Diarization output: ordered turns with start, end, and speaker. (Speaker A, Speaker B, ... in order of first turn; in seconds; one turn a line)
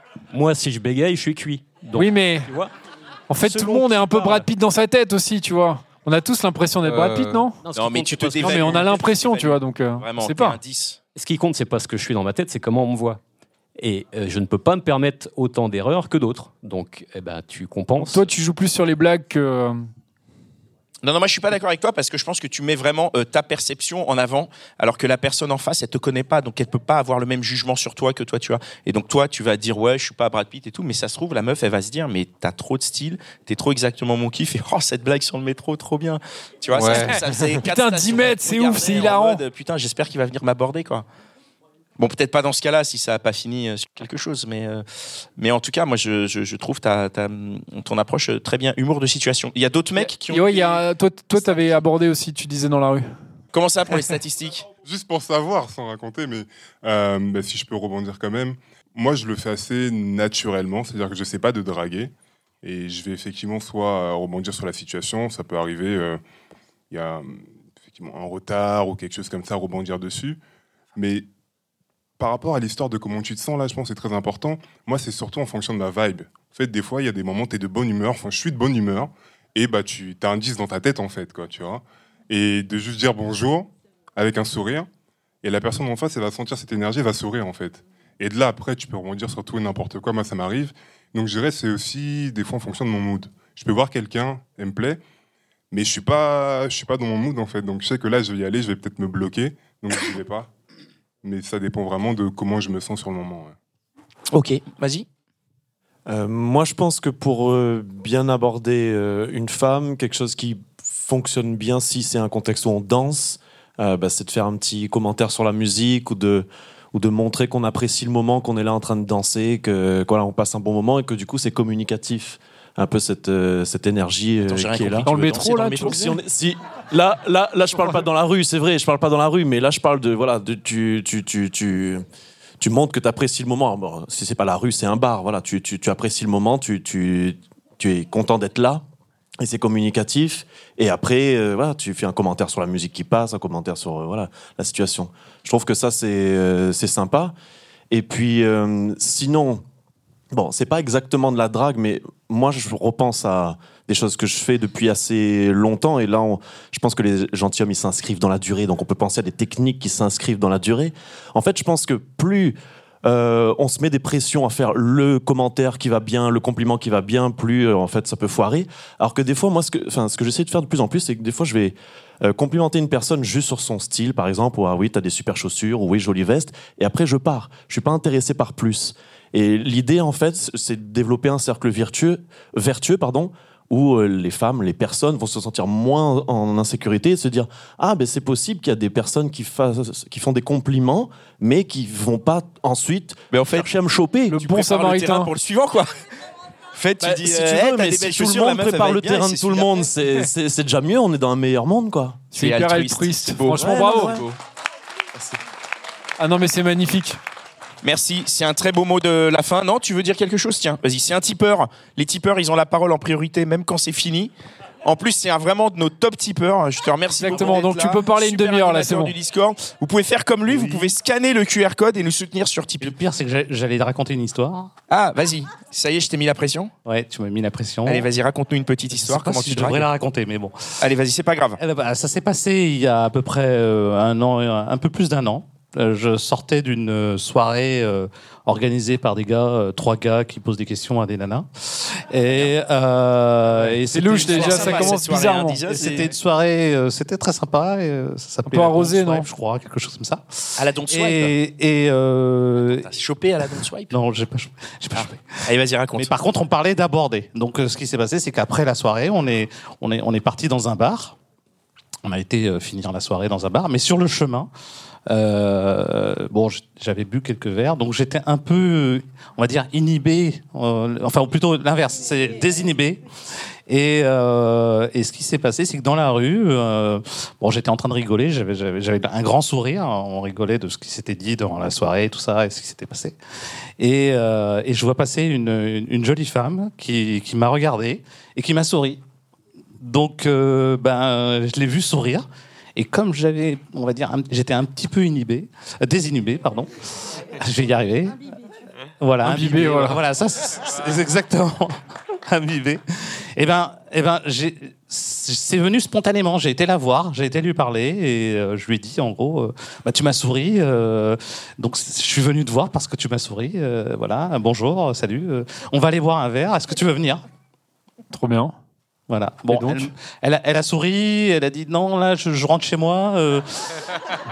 Speaker A: 0.3-2.7
Speaker B: 2.0-2.5
Speaker B: 3.3-7.6
Speaker A: 3.4-4.5
Speaker A: 6.8-9.0
Speaker C: 7.7-11.0
Speaker B: 8.4-10.6
Speaker A: 11.2-13.2
Speaker A: 13.8-18.3
Speaker B: 18.0-19.9
Speaker C: 21.0-41.0
Speaker A: 36.7-37.5
Speaker B: 36.9-39.4
Speaker C: 42.0-44.9
Speaker C: 45.4-50.8
Speaker B: 50.0-53.1
Speaker C: 51.4-51.8
Speaker C: 53.5-54.7
Speaker D: 54.8-66.2
Speaker D: 66.9-70.4
Speaker D: 71.0-71.3
Speaker D: 72.2-84.9
Speaker D: 85.4-95.0
Speaker D: 95.7-100.5
Speaker D: 101.2-103.5
Speaker C: 104.3-105.1
Speaker E: 106.1-125.1
Speaker C: 124.4-126.1
Speaker B: 125.0-126.2
Speaker E: 125.8-132.0
Speaker E: 132.6-138.8
Speaker E: 139.4-147.3
Speaker E: 147.9-149.6
Speaker E: 150.3-194.4
Speaker C: 193.3-193.7
Speaker B: 194.3-195.3
Speaker C: 194.3-195.9
Speaker C: 196.8-199.9
Speaker E: 197.0-202.2
Speaker B: 202.3-204.2
Speaker C: 202.4-204.4
Speaker E: 203.6-204.2
Speaker B: 206.2-207.2
Speaker C: 207.8-214.3
Speaker C: 214.8-223.0
Speaker B: 217.1-219.2
Speaker F: 220.5-220.9
Speaker F: 222.8-224.7
Speaker C: 224.9-226.7
Speaker F: 226.9-228.1
Speaker C: 227.8-229.9
Speaker F: 228.9-230.7
Speaker C: 230.8-231.6
Speaker F: 231.6-244.9
Speaker B: 243.9-245.7
Speaker C: 244.0-246.1
Speaker F: 245.7-252.9
Speaker B: 248.5-249.3
Speaker C: 250.6-251.4
Speaker C: 252.6-254.0
Speaker F: 253.9-255.2
Speaker C: 254.9-256.2
Speaker F: 256.0-261.2
Speaker F: 262.0-264.5
Speaker F: 265.1-273.1
Speaker F: 273.7-283.2
Speaker F: 283.8-289.0
Speaker F: 289.8-298.2
Speaker F: 299.0-302.8
Speaker B: 299.2-300.0
Speaker F: 303.4-317.2
Speaker B: 318.1-318.6
Speaker F: 319.1-323.8
Speaker A: 319.5-319.8